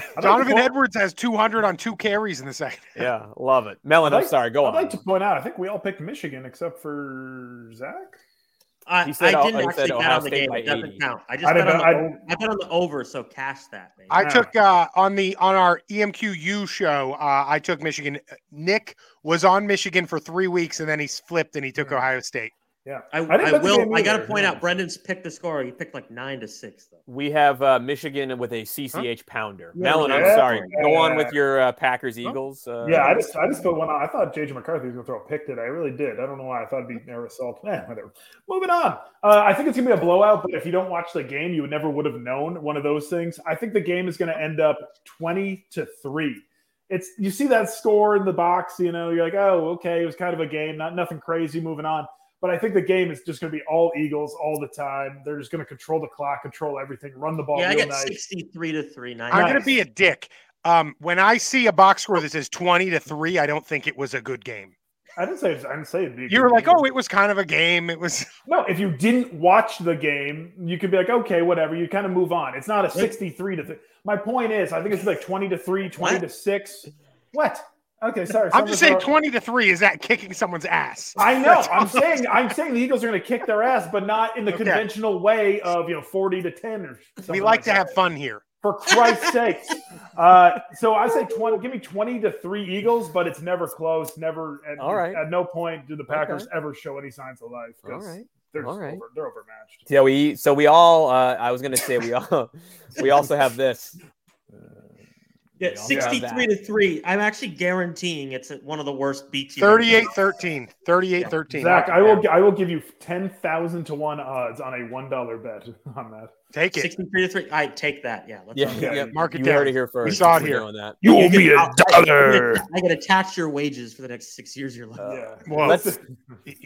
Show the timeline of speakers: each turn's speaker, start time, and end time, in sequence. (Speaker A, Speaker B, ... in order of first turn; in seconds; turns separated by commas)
Speaker A: 0.2-0.7, Speaker B: 0.2-3.1, Speaker C: 3.0-5.0, Speaker A: 4.0-8.2, Speaker D: 8.9-14.2, Speaker C: 9.0-11.0, Speaker A: 11.4-12.1, Speaker B: 14.1-22.5, Speaker A: 14.2-14.5, Speaker A: 21.8-22.1, Speaker A: 22.9-24.6, Speaker D: 23.1-27.0, Speaker C: 27.1-33.2, Speaker A: 29.8-31.4, Speaker D: 29.8-30.9, Speaker A: 32.8-58.2, Speaker D: 57.5-59.7, Speaker B: 59.3-64.7, Speaker A: 59.3-59.6, Speaker A: 65.2-66.8, Speaker B: 66.3-68.3, Speaker A: 68.5-79.1, Speaker D: 76.0-76.2, Speaker B: 78.5-82.0, Speaker A: 81.2-88.0, Speaker B: 84.5-84.9, Speaker B: 87.3-88.5, Speaker A: 88.6-99.9, Speaker C: 94.8-95.2, Speaker C: 96.1-96.5, Speaker C: 97.8-99.0, Speaker C: 99.9-104.0, Speaker D: 105.6-110.1, Speaker C: 105.7-106.5, Speaker A: 105.9-106.2, Speaker B: 109.6-112.2, Speaker A: 111.5-116.3, Speaker B: 116.5-116.9, Speaker D: 116.7-119.1, Speaker C: 118.5-121.0, Speaker A: 118.6-119.2, Speaker B: 119.1-120.7, Speaker A: 121.0-122.7, Speaker D: 121.0-125.2, Speaker C: 125.0-126.0, Speaker A: 125.0-126.1, Speaker B: 125.5-125.9